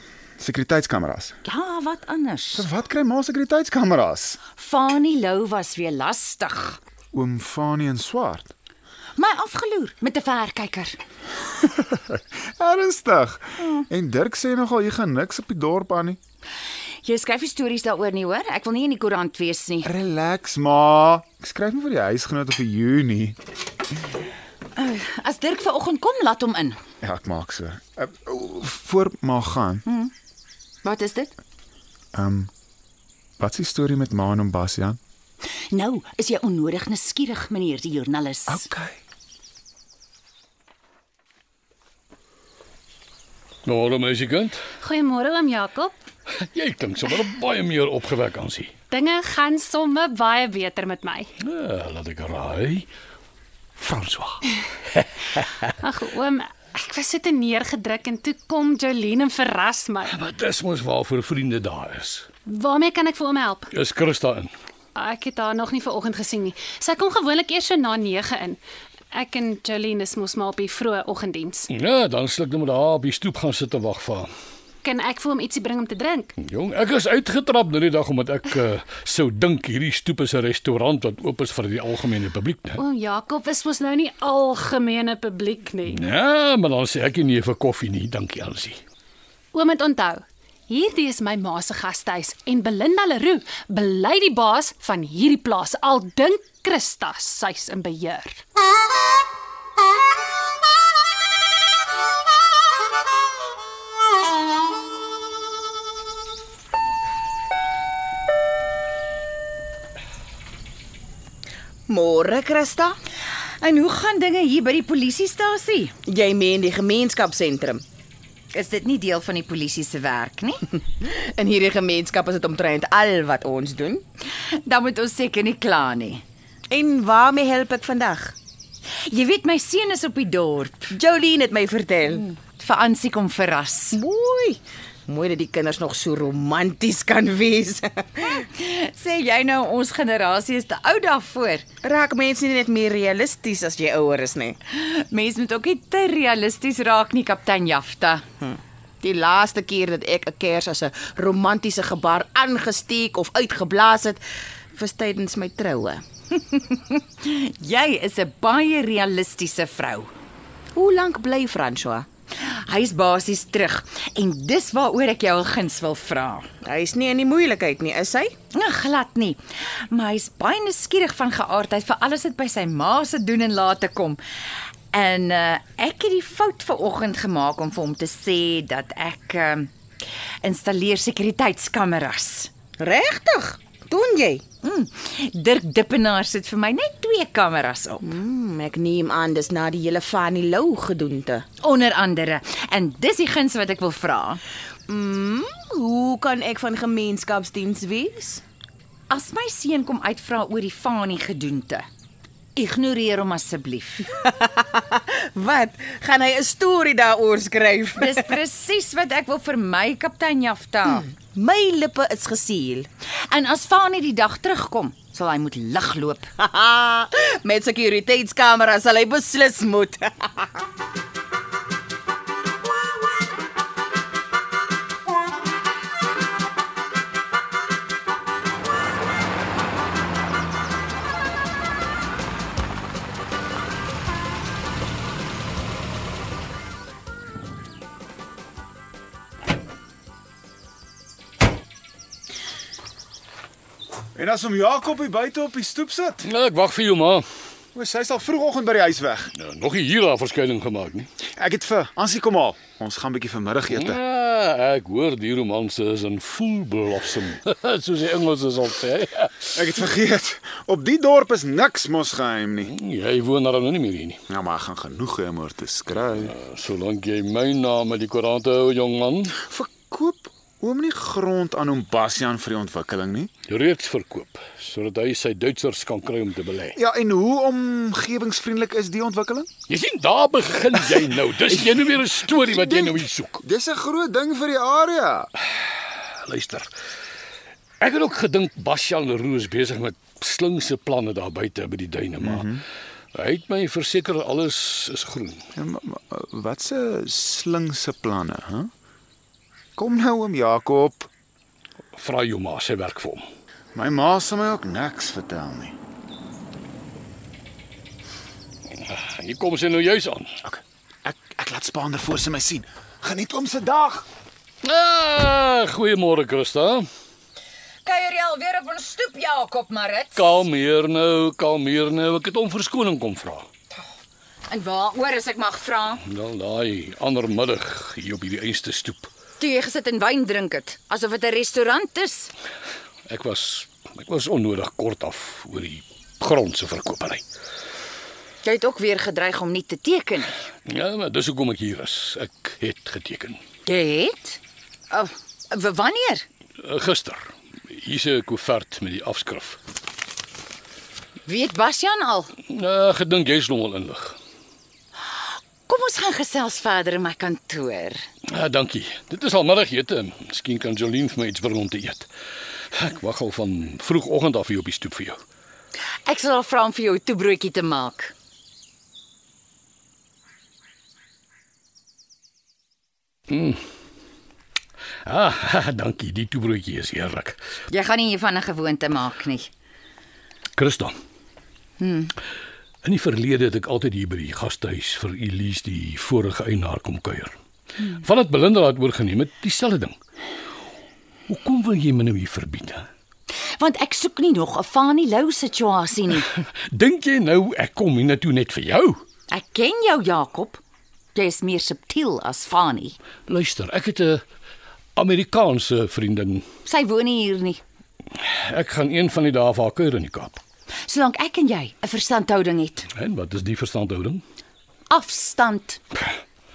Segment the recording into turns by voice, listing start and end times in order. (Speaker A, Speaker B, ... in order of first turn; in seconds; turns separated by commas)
Speaker A: 0.4-1.4, Speaker B: 1.4-2.7, Speaker A: 2.5-4.4, Speaker B: 4.5-6.8, Speaker A: 7.1-8.5, Speaker B: 9.2-11.0, Speaker A: 11.6-16.2, Speaker B: 17.0-19.9, Speaker A: 19.8-23.4, Speaker B: 24.8-26.8, Speaker A: 27.0-29.8, Speaker B: 29.9-30.1, Speaker B: 30.8-31.3, Speaker A: 32.1-32.5, Speaker A: 33.4-35.0, Speaker B: 35.7-38.6, Speaker A: 38.5-39.0, Speaker C: 43.6-44.6, Speaker D: 44.8-45.9, Speaker C: 46.4-48.7, Speaker D: 48.9-51.3, Speaker C: 51.4-52.9, Speaker C: 53.8-54.4, Speaker C: 54.9-55.2, Speaker D: 55.8-60.2, Speaker C: 60.1-62.3, Speaker D: 62.5-63.7, Speaker C: 63.7-64.5, Speaker D: 65.0-68.6, Speaker D: 69.1-71.7, Speaker C: 71.7-74.3, Speaker D: 74.8-76.3, Speaker C: 76.4-82.8, Speaker D: 82.8-86.0, Speaker C: 85.9-88.8, Speaker D: 89.5-98.4, Speaker E: 111.9-113.0, Speaker B: 113.6-115.9, Speaker E: 116.0-117.8, Speaker B: 118.5-120.7, Speaker E: 121.0-124.0, Speaker B: 124.6-126.2, Speaker E: 126.7-128.3, Speaker B: 129.1-130.9, Speaker E: 130.9-132.3, Speaker B: 132.3-134.0, Speaker E: 133.9-138.4, Speaker B: 138.4-141.7, Speaker E: 141.8-144.6, Speaker B: 144.7-148.2, Speaker E: 148.4-154.2, Speaker E: 154.7-156.0, Speaker B: 156.3-160.1, Speaker E: 160.7-162.1, Speaker B: 162.4-166.5, Speaker E: 166.6-168.3, Speaker B: 168.5-174.2, Speaker B: 174.9-179.7, Speaker B: 180.4-182.5, Speaker E: 182.8-184.4, Speaker B: 184.6-188.1, Speaker E: 188.0-191.4, Speaker B: 191.6-194.4, Speaker E: 194.9-198.4, Speaker B: 199.1-201.8, Speaker B: 202.6-204.1, Speaker E: 204.2-208.3, Speaker B: 208.0-211.1, Speaker E: 210.8-212.9, Speaker B: 213.3-216.3, Speaker E: 216.4-220.6, Speaker A: 244.1-246.3, Speaker C: 246.2-247.2, Speaker A: 247.7-249.3, Speaker C: 249.4-251.1, Speaker A: 251.3-254.0, Speaker C: 253.7-259.5, Speaker A: 259.5-262.7, Speaker C: 262.6-264.2, Speaker A: 264.3-266.3, Speaker C: 266.1-269.4, Speaker A: 269.4-273.3, Speaker C: 273.5-276.8, Speaker A: 276.7-279.5, Speaker C: 279.7-283.4, Speaker A: 280.9-285.3, Speaker C: 286.2-286.7, Speaker C: 287.8-292.5, Speaker A: 292.2-292.6, Speaker C: 293.1-295.4, Speaker A: 295.5-298.7, Speaker A: 299.8-301.1, Speaker C: 301.9-303.2, Speaker A: 303.7-305.7, Speaker C: 308.8-310.3, Speaker A: 310.4-314.1, Speaker C: 314.6-316.9, Speaker B: 317.8-320.4, Speaker C: 320.1-323.5, Speaker B: 324.5-326.0, Speaker C: 326.0-329.1, Speaker B: 329.4-332.3, Speaker C: 333.1-337.2, Speaker B: 338.4-340.4, Speaker C: 340.7-343.4, Speaker B: 343.6-344.4, Speaker B: 344.9-346.2, Speaker C: 346.6-349.6, Speaker B: 351.2-352.3, Speaker C: 352.5-354.2, Speaker B: 355.6-358.0, Speaker C: 358.3-362.1, Speaker C: 362.7-365.2, Speaker B: 366.0-368.1, Speaker C: 373.3-373.6, Speaker C: 375.0-377.4, Speaker B: 377.7-379.5, Speaker C: 380.6-380.9, Speaker B: 381.8-382.1, Speaker C: 382.8-387.3, Speaker C: 387.9-389.9, Speaker C: 391.3-392.9, Speaker B: 393.6-396.3, Speaker C: 396.3-399.0, Speaker B: 399.3-400.6, Speaker B: 401.1-403.0, Speaker C: 403.3-404.2, Speaker C: 404.9-406.4, Speaker B: 406.6-407.6, Speaker C: 408.1-410.4, Speaker B: 410.8-412.9, Speaker C: 412.9-414.2, Speaker B: 414.9-415.8